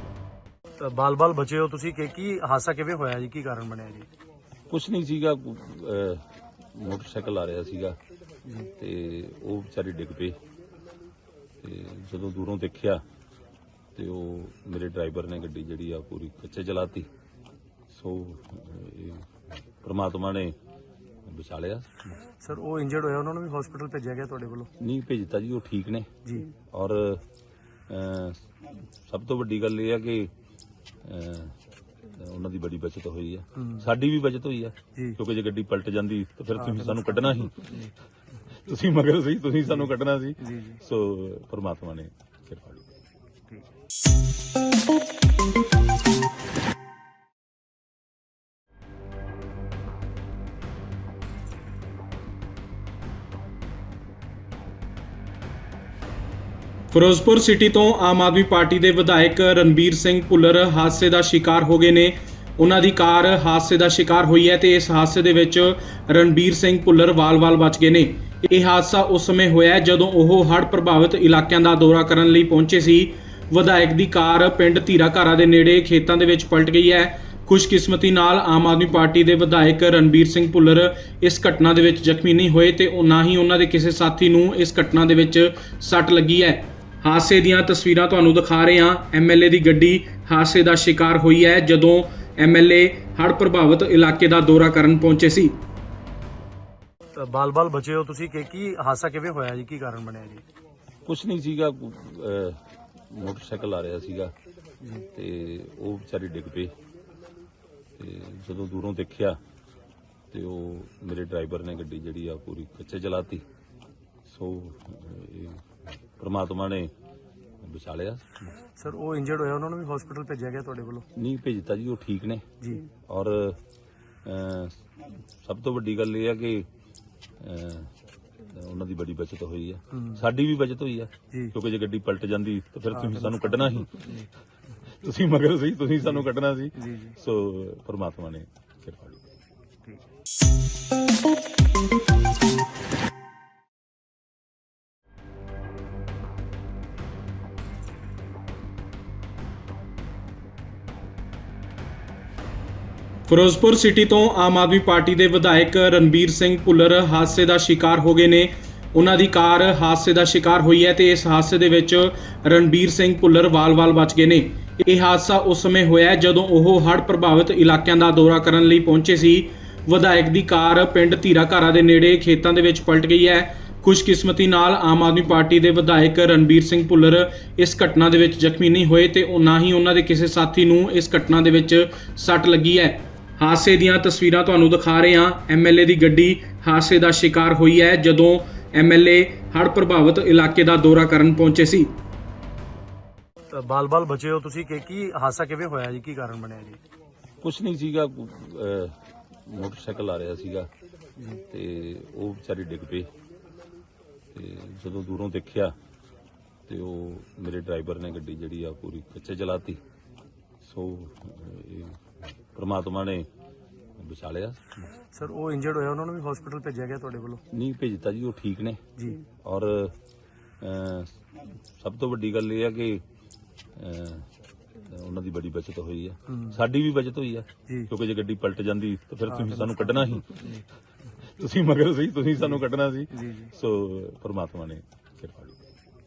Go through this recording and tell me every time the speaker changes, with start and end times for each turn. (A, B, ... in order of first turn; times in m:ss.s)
0:00.8-0:04.1 A
0:04.7-0:08.0 B
0:08.8-0:10.4 B
0:11.6-0:13.0 B
0:14.0-0:17.1 B
0:17.9-0:19.3 B
0:19.8-0:20.6 B
0:21.3-0:22.0 B
0:22.4-0:24.7 A
0:24.8-0:26.1 B
0:26.2-0:26.5 A
0:26.7-0:27.2 B
0:27.9-0:28.5 B
0:29.1-0:30.3 B
0:31.0-0:37.8 B
0:33.6-0:33.8 A
0:36.6-0:37.1 A
0:38.6-0:42.8 B
0:40.4-0:40.8 A
0:56.9-1:35.6 C
1:37.2-1:40.4 A
1:41.0-1:44.3 B
1:44.8-1:45.1 A
1:45.2-1:46.7 B
1:48.0-1:49.4 B
1:50.3-1:53.4 B
1:54.2-1:55.6 B
1:56.2-1:56.9 B
1:57.6-1:58.4 B
1:58.8-2:01.1 A
2:01.2-2:02.4 B
2:02.6-2:02.9 A
2:03.1-2:03.6 B
2:04.2-2:04.9 B
2:05.4-2:06.7 B
2:07.4-2:14.2 B
2:10.0-2:10.2 A
2:12.9-2:13.5 A
2:15.0-2:19.2 B
2:16.8-2:17.2 A
2:33.3-3:11.9 C
3:13.5-3:16.8 A
3:17.4-3:20.7 B
3:21.5-3:23.1 B
3:24.3-3:25.8 B
3:26.7-3:29.8 B
3:30.6-3:32.0 B
3:32.6-3:33.3 B
3:34.0-3:34.8 B
3:35.1-3:37.4 A
3:37.5-3:38.8 B
3:39.0-3:39.2 A
3:39.4-3:39.9 B
3:40.6-3:41.2 B
3:41.8-3:43.0 B
3:43.8-3:50.6 B
3:46.3-3:46.6 A
3:49.3-3:49.8 A
3:51.4-3:55.6 B
3:53.2-3:53.5 A